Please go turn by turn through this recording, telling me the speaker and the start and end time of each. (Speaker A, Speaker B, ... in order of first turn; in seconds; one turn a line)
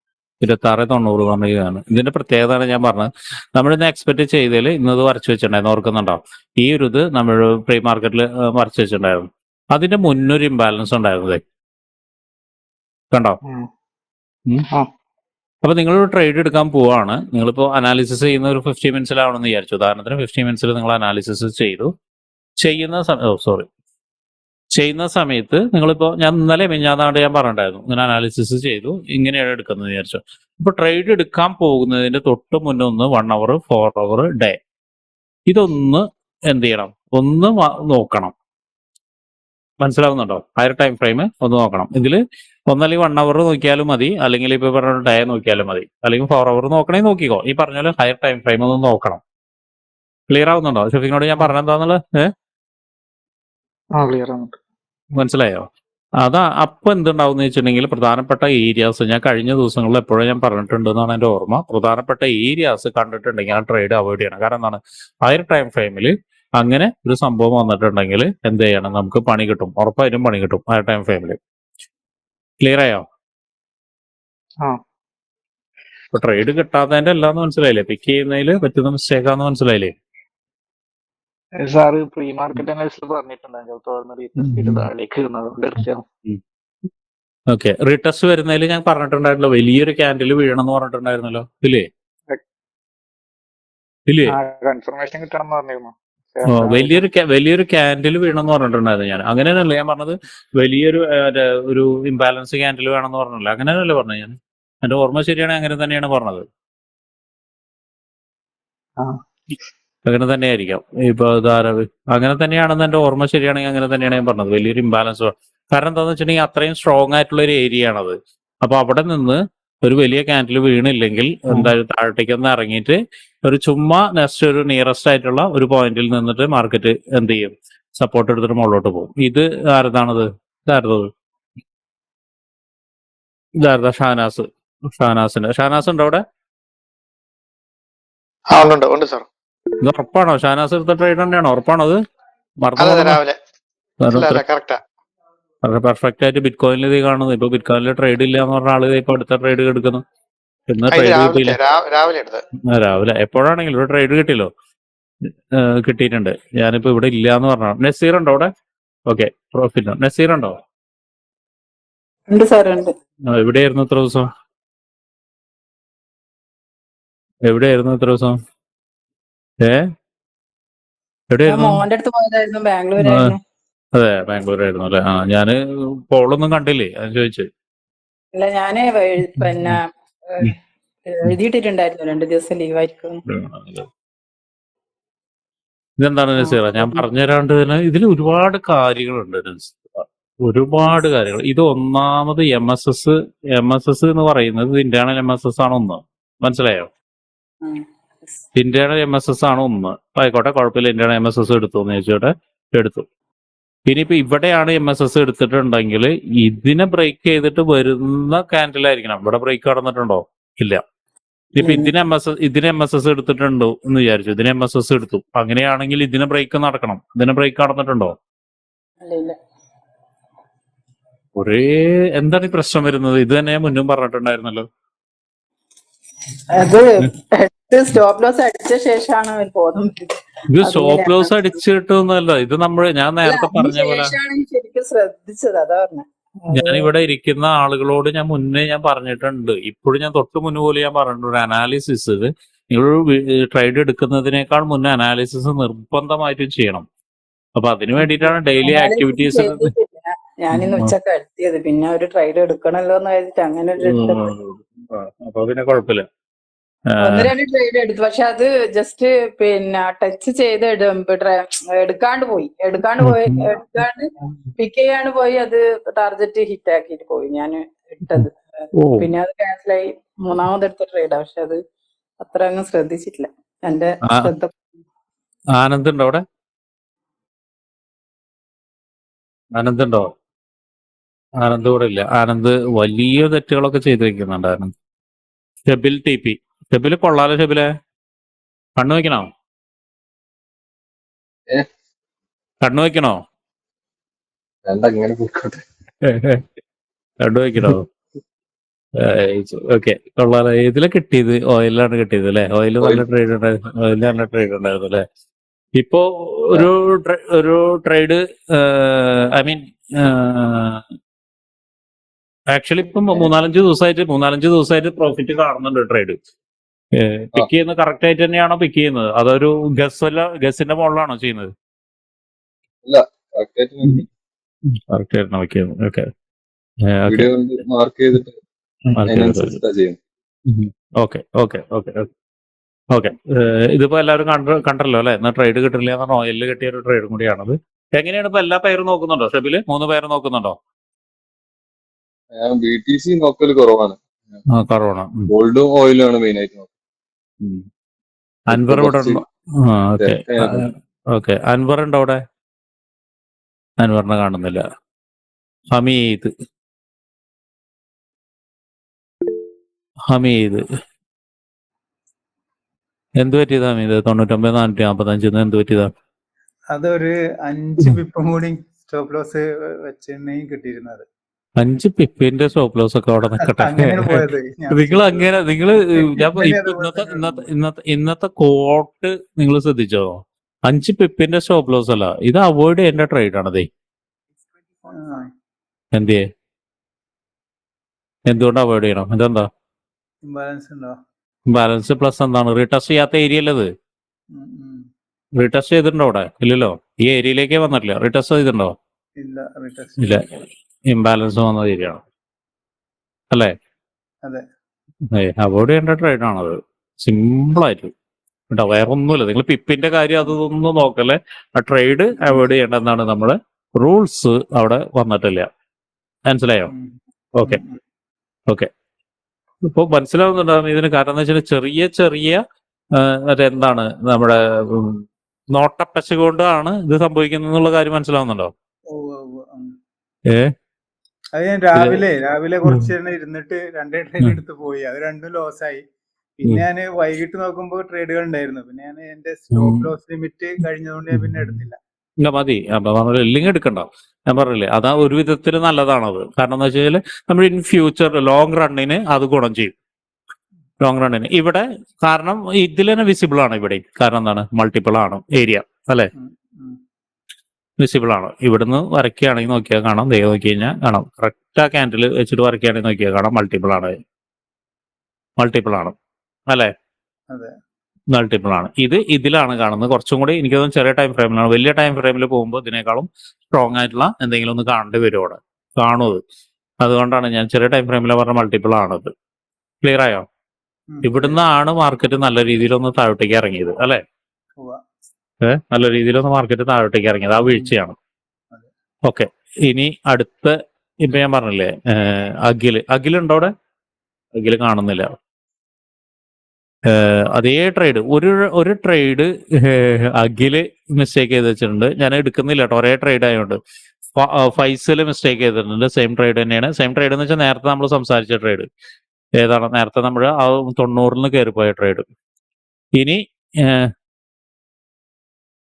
Speaker A: 0.4-11.4
Speaker A: 13.1-13.4
Speaker A: 15.6-21.9
Speaker A: 22.6-23.7
Speaker A: 24.7-34.6
Speaker A: 35.5-38.3
Speaker A: 39.8-49.2
Speaker A: 50.3-52.3
Speaker B: 54.0-54.6
Speaker A: 55.2-55.7
Speaker A: 56.2-71.4
Speaker A: 72.6-73.1
Speaker A: 76.1-79.9
Speaker B: 81.6-86.0
Speaker A: 84.4-84.9
Speaker A: 87.5-91.9
Speaker A: 94.1-94.3
Speaker B: 94.3-97.0
Speaker A: 96.5-106.5
Speaker A: 110.1-131.1
Speaker A: 133.6-136.2
Speaker C: 138.5-139.3
Speaker A: 139.8-142.0
Speaker A: 142.6-143.2
Speaker C: 142.8-143.4
Speaker A: 144.0-144.4
Speaker C: 144.1-144.8
Speaker A: 145.6-150.0
Speaker A: 150.7-151.6
Speaker C: 150.9-152.4
Speaker A: 152.7-154.5
Speaker A: 155.2-158.5
Speaker A: 159.1-160.6
Speaker D: 162.3-162.9
Speaker A: 163.3-164.3
Speaker A: 167.5-168.4
Speaker A: 169.6-169.9
Speaker A: 171.3-171.8
Speaker D: 171.5-173.4
Speaker A: 173.0-173.3
Speaker A: 173.9-175.6
Speaker A: 176.1-177.5
Speaker D: 178.3-183.2
Speaker A: 179.4-179.8
Speaker A: 183.3-183.9
Speaker A: 186.0-196.9
Speaker D: 186.4-187.0
Speaker A: 198.6-203.1
Speaker A: 203.9-210.8
Speaker A: 211.6-218.2
Speaker D: 211.6-211.9
Speaker D: 219.1-219.4
Speaker A: 221.4-224.7
Speaker D: 226.5-231.3
Speaker A: 230.5-234.1
Speaker D: 233.2-236.9
Speaker A: 236.5-246.9
Speaker A: 247.6-249.7
Speaker D: 248.0-254.2
Speaker A: 250.5-250.9
Speaker A: 253.8-256.1
Speaker A: 256.9-257.3
Speaker D: 257.0-271.6
Speaker A: 263.0-263.5
Speaker A: 268.8-269.1
Speaker D: 272.2-274.5
Speaker A: 274.1-274.3
Speaker A: 275.5-276.2
Speaker A: 279.6-280.1
Speaker A: 281.4-284.7
Speaker A: 285.7-287.7
Speaker A: 288.8-289.3
Speaker A: 292.6-293.2
Speaker E: 294.7-295.6
Speaker A: 296.0-296.4
Speaker A: 297.2-297.9
Speaker A: 299.0-305.1
Speaker A: 305.8-310.9
Speaker A: 312.5-316.2
Speaker A: 316.9-321.5
Speaker E: 322.9-324.1
Speaker A: 324.7-326.1
Speaker A: 326.9-327.3
Speaker E: 327.1-328.4
Speaker A: 328.9-329.6
Speaker E: 329.0-330.0
Speaker A: 330.5-332.1
Speaker A: 332.9-340.6
Speaker E: 342.4-344.4
Speaker A: 344.5-345.3
Speaker E: 345.3-346.7
Speaker E: 348.5-349.2
Speaker A: 348.5-352.2
Speaker E: 350.0-350.7
Speaker A: 353.8-354.6
Speaker A: 355.7-356.3
Speaker A: 360.1-360.6
Speaker A: 363.2-365.9
Speaker F: 366.7-371.1
Speaker A: 371.6-383.7
Speaker F: 373.4-377.5
Speaker F: 384.9-385.3
Speaker A: 385.9-386.3
Speaker A: 388.3-389.5
Speaker F: 390.2-391.0
Speaker A: 391.5-393.7
Speaker F: 394.3-394.9
Speaker A: 395.4-398.8
Speaker F: 399.2-400.2
Speaker A: 400.0-400.3
Speaker A: 400.9-402.0
Speaker A: 405.1-407.9
Speaker A: 408.5-415.5
Speaker A: 416.3-416.7
Speaker F: 416.7-417.8
Speaker A: 419.6-422.4
Speaker A: 422.9-428.5
Speaker F: 428.9-429.8
Speaker A: 430.3-430.5
Speaker F: 431.4-435.8
Speaker A: 431.7-432.1
Speaker F: 436.4-441.8
Speaker A: 439.6-439.9
Speaker A: 441.1-441.6
Speaker A: 442.2-449.7
Speaker A: 450.8-456.1
Speaker F: 456.2-456.8
Speaker A: 457.8-464.0
Speaker A: 465.4-465.9
Speaker A: 468.1-476.2
Speaker A: 476.8-479.1
Speaker A: 479.8-480.3
Speaker F: 480.9-481.4
Speaker A: 481.0-484.0
Speaker F: 484.6-484.8
Speaker A: 485.4-488.0
Speaker F: 487.4-487.7
Speaker A: 489.1-493.5
Speaker A: 494.4-495.1
Speaker A: 496.9-503.6
Speaker A: 504.1-508.7
Speaker A: 509.4-512.0
Speaker A: 513.0-513.9